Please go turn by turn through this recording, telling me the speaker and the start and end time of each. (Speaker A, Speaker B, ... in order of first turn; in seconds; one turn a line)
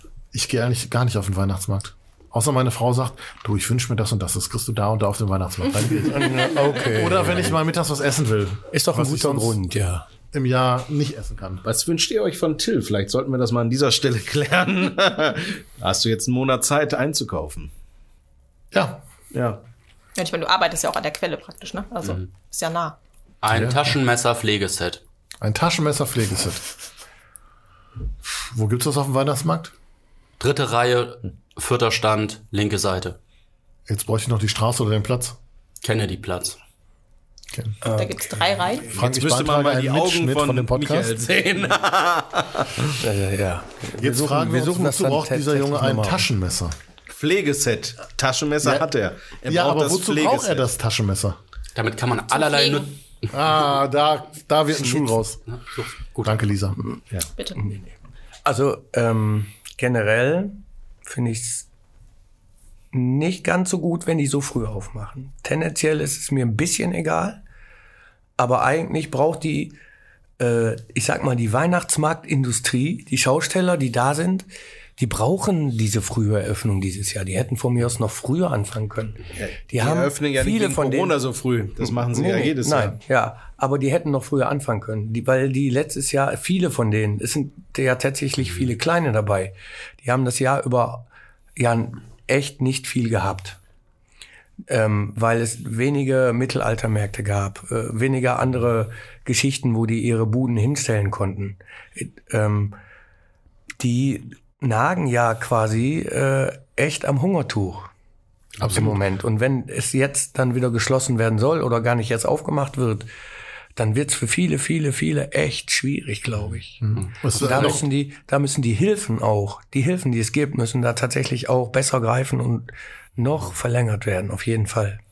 Speaker A: 0.3-9.6
Speaker B: 5.9-7.6
Speaker B: 8.7-10.1
Speaker A: 10.3-11.6
Speaker C: 11.6-17.7
Speaker A: 18.7-19.0
Speaker C: 19.3-19.6
Speaker D: 20.2-22.9
Speaker E: 23.4-25.0
Speaker A: 23.5-23.8
Speaker A: 25.4-26.6
Speaker A: 28.2-29.7
Speaker E: 30.4-33.2
Speaker A: 33.9-35.4
Speaker E: 35.8-36.6
Speaker B: 37.8-38.2
Speaker D: 37.9-38.9
Speaker A: 38.9-41.2
Speaker C: 38.9-43.0
Speaker B: 43.0-46.3
Speaker A: 44.0-46.8
Speaker C: 47.1-50.7
Speaker A: 48.6-48.9
Speaker A: 49.5-51.4
Speaker E: 51.7-53.0
Speaker D: 52.3-52.9
Speaker A: 53.3-55.4
Speaker E: 55.5-56.4
Speaker A: 56.2-56.8
Speaker B: 57.5-57.9
Speaker B: 58.4-61.7
Speaker B: 62.9-67.4
Speaker B: 68.4-69.8
Speaker B: 70.4-81.2
Speaker C: 79.3-83.0
Speaker B: 82.1-93.6
Speaker B: 94.7-102.8
Speaker B: 103.8-107.9
Speaker B: 108.6-113.1
Speaker B: 113.8-125.0
Speaker A: 116.8-117.8